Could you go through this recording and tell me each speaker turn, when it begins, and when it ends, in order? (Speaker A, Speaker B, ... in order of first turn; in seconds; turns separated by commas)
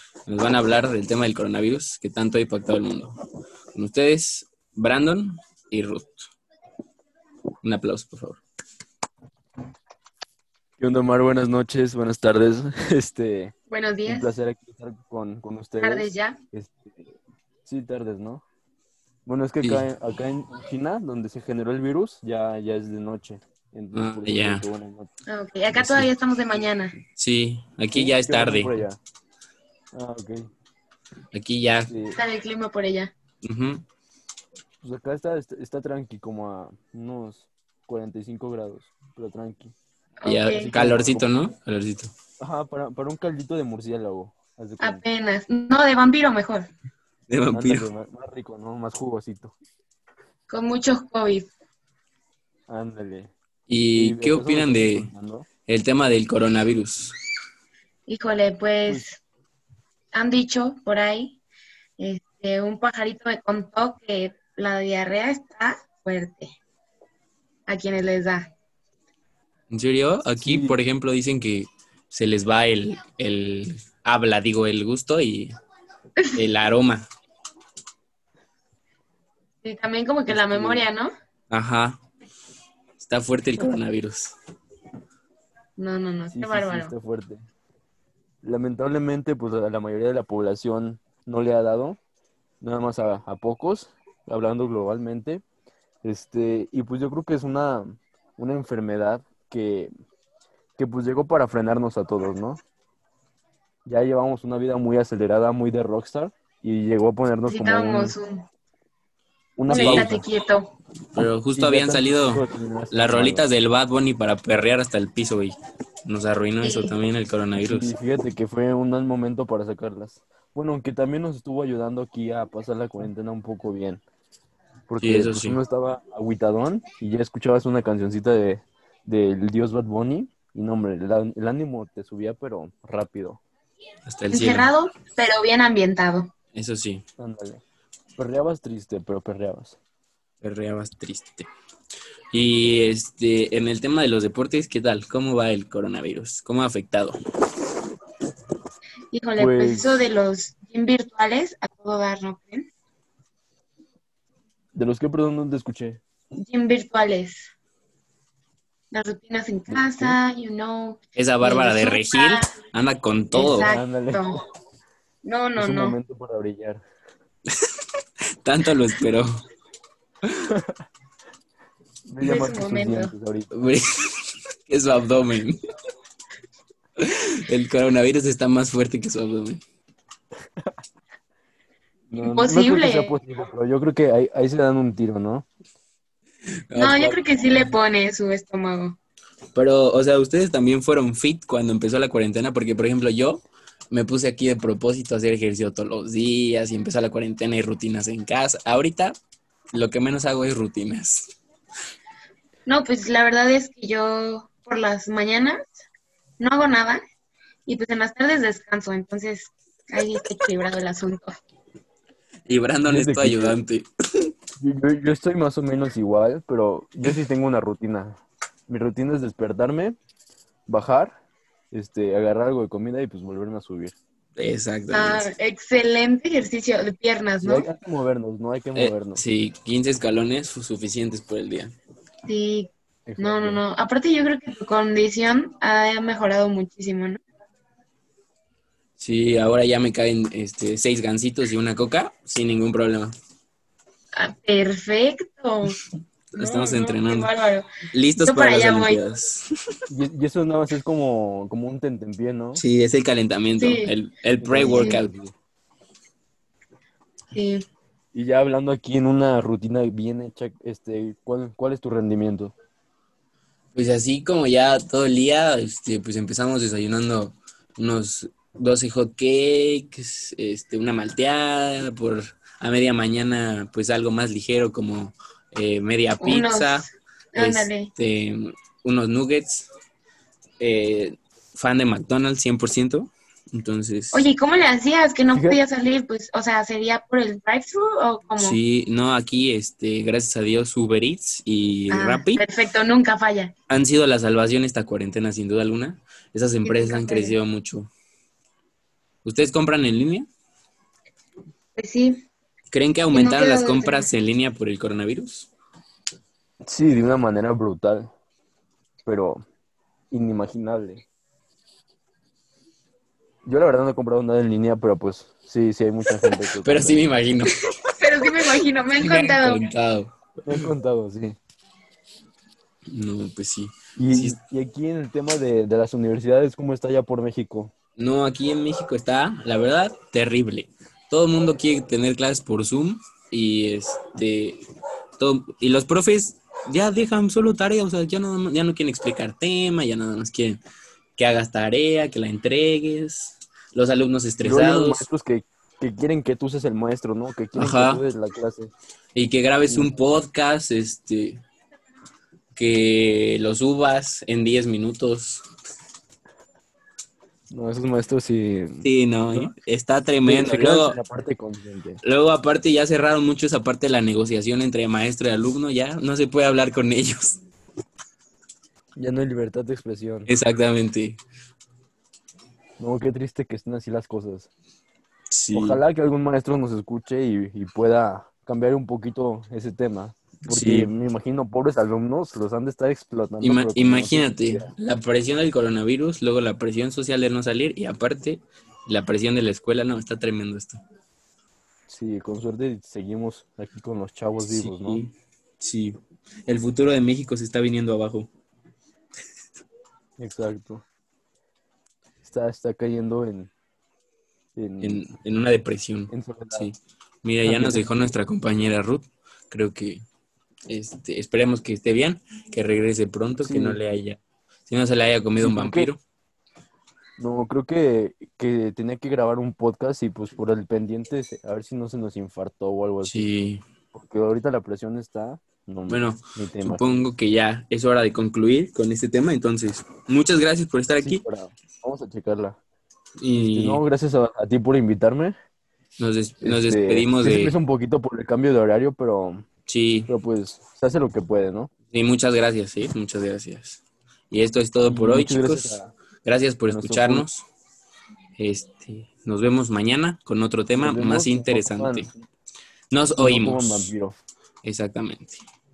Speaker A: 0.3-3.1, Speaker A: 3.7-6.3, Speaker A: 7.6-8.4, Speaker B: 10.8-13.5, Speaker C: 13.7-14.3, Speaker B: 14.1-17.1, Speaker C: 15.8-16.4, Speaker B: 17.6-18.4, Speaker B: 19.3-25.1, Speaker A: 19.6-19.9, Speaker A: 23.9-24.6, Speaker C: 25.3-27.0, Speaker A: 25.7-26.1, Speaker A: 27.2-28.8, Speaker B: 27.9-29.0, Speaker B: 29.9-30.5, Speaker A: 31.3-31.9, Speaker B: 31.9-32.2, Speaker C: 32.1-33.1, Speaker A: 33.4-33.8, Speaker B: 34.8-39.8, Speaker C: 40.2-40.7, Speaker A: 40.2-42.1, Speaker B: 40.5-41.3, Speaker B: 42.4-45.0, Speaker C: 44.8-46.7, Speaker A: 47.3-47.9, Speaker B: 47.5-49.5, Speaker C: 50.5-51.5, Speaker B: 52.7-53.3, Speaker A: 53.7-55.1, Speaker B: 54.0-55.5, Speaker A: 55.7-57.1, Speaker C: 58.1-59.2, Speaker C: 60.1-61.4, Speaker C: 62.0-66.5, Speaker C: 67.7-68.5, Speaker A: 69.7-75.5, Speaker B: 70.4-70.8, Speaker A: 76.3-77.1, Speaker C: 79.6-81.1, Speaker B: 80.3-80.9, Speaker A: 81.5-82.0, Speaker A: 83.0-84.3, Speaker C: 85.8-86.9, Speaker B: 86.3-87.5, Speaker B: 88.4-92.0, Speaker B: 92.6-95.4, Speaker B: 96.0-99.9, Speaker B: 100.8-102.6, Speaker B: 103.9-108.2, Speaker C: 107.5-108.5, Speaker B: 109.6-110.2, Speaker C: 109.7-110.7, Speaker A: 109.7-110.1, Speaker A: 111.2-115.5, Speaker B: 111.5-113.5, Speaker A: 116.1-117.9, Speaker C: 116.6-117.0, Speaker B: 117.6-124.0, Speaker B: 124.9-133.4, Speaker A: 125.0-125.6, Speaker A: 134.1-134.7, Speaker C: 134.3-136.3, Speaker A: 136.6-137.0, Speaker B: 137.2-137.6, Speaker B: 138.2-139.8, Speaker A: 140.4-141.5, Speaker A: 142.3-147.2, Speaker C: 149.1-152.7, Speaker B: 149.4-150.0, Speaker B: 154.8-156.0, Speaker C: 156.4-157.5, Speaker C: 158.9-162.5, Speaker B: 159.7-160.2, Speaker A: 161.2-163.7, Speaker C: 163.3-164.4, Speaker B: 163.4-164.3, Speaker C: 165.2-166.0, Speaker B: 165.6-166.8, Speaker A: 168.4-169.3, Speaker B: 172.1-173.6, Speaker C: 172.2-173.1, Speaker A: 173.6-175.6, Speaker A: 177.0-179.6, Speaker B: 182.1-185.5, Speaker C: 182.2-183.2, Speaker A: 186.7-187.7, Speaker C: 186.8-189.0, Speaker A: 189.6-199.2, Speaker A: 199.7-201.3, Speaker C: 202.7-205.7, Speaker C: 206.4-207.0, Speaker C: 207.7-211.3, Speaker A: 212.5-214.3, Speaker B: 212.8-213.6, Speaker B: 214.6-220.0, Speaker B: 220.7-221.1, Speaker B: 221.7-223.9, Speaker A: 224.4-225.3, Speaker C: 224.9-227.7, Speaker B: 227.4-229.2, Speaker A: 228.8-231.7, Speaker C: 232.3-237.2, Speaker B: 233.1-233.6, Speaker A: 239.0-243.1, Speaker C: 244.2-245.8, Speaker A: 246.3-247.3, Speaker C: 246.3-249.0, Speaker A: 247.9-249.5, Speaker B: 249.9-252.6, Speaker A: 252.6-255.1, Speaker C: 253.6-253.9, Speaker B: 254.4-255.3, Speaker C: 254.6-255.0, Speaker C: 257.3-257.6, Speaker B: 258.1-262.5, Speaker A: 263.8-279.7, Speaker C: 276.2-277.9, Speaker A: 280.6-284.3, Speaker C: 284.1-288.6, Speaker B: 285.3-285.6, Speaker A: 288.4-292.4, Speaker C: 291.9-293.5, Speaker A: 293.7-297.9, Speaker C: 296.6-297.4, Speaker A: 299.2-300.3, Speaker C: 301.8-302.3, Speaker A: 302.7-305.5, Speaker C: 303.1-304.1, Speaker B: 306.6-308.1, Speaker B: 309.1-309.4, Speaker B: 310.1-311.1, Speaker B: 313.4-317.1, Speaker A: 316.2-317.5, Speaker C: 318.0-319.7, Speaker A: 318.2-320.7, Speaker B: 320.4-321.4, Speaker A: 322.9-324.4, Speaker B: 324.0-327.7, Speaker A: 328.0-334.6, Speaker A: 335.2-340.6, Speaker A: 341.2-345.1, Speaker B: 344.4-348.7, Speaker A: 347.6-348.0, Speaker A: 349.1-351.4, Speaker B: 349.7-349.9, Speaker A: 352.6-355.4, Speaker B: 357.5-359.5, Speaker A: 358.8-361.0, Speaker B: 360.2-362.0, Speaker A: 362.0-367.4, Speaker B: 369.0-370.3, Speaker A: 370.3-371.2, Speaker B: 372.8-374.5, Speaker A: 375.3-375.8, Speaker B: 375.5-384.7, Speaker A: 380.5-380.9, Speaker A: 383.4-390.8, Speaker B: 391.9-395.0, Speaker A: 394.4-398.3, Speaker B: 400.2-400.9, Speaker B: 402.2-403.5, Speaker B: 404.6-405.1, Speaker A: 404.8-410.0, Speaker B: 406.1-406.7, Speaker B: 407.4-408.1, Speaker A: 410.7-416.0, Speaker B: 413.4-413.8, Speaker B: 415.4-415.9, Speaker B: 417.2-423.3, Speaker A: 423.0-423.6, Speaker B: 423.9-427.1, Speaker A: 425.9-431.2, Speaker B: 431.0-432.6, Speaker A: 433.2-433.8, Speaker B: 433.5-435.4, Speaker A: 436.0-437.6, Speaker B: 436.4-439.5, Speaker A: 439.7-440.1, Speaker B: 440.1-441.7, Speaker A: 441.9-447.5, Speaker B: 444.8-445.9, Speaker B: 446.7-447.3, Speaker A: 448.4-452.1, Speaker B: 450.8-452.1, Speaker A: 452.9-453.9, Speaker B: 453.2-454.2, Speaker A: 454.6-455.4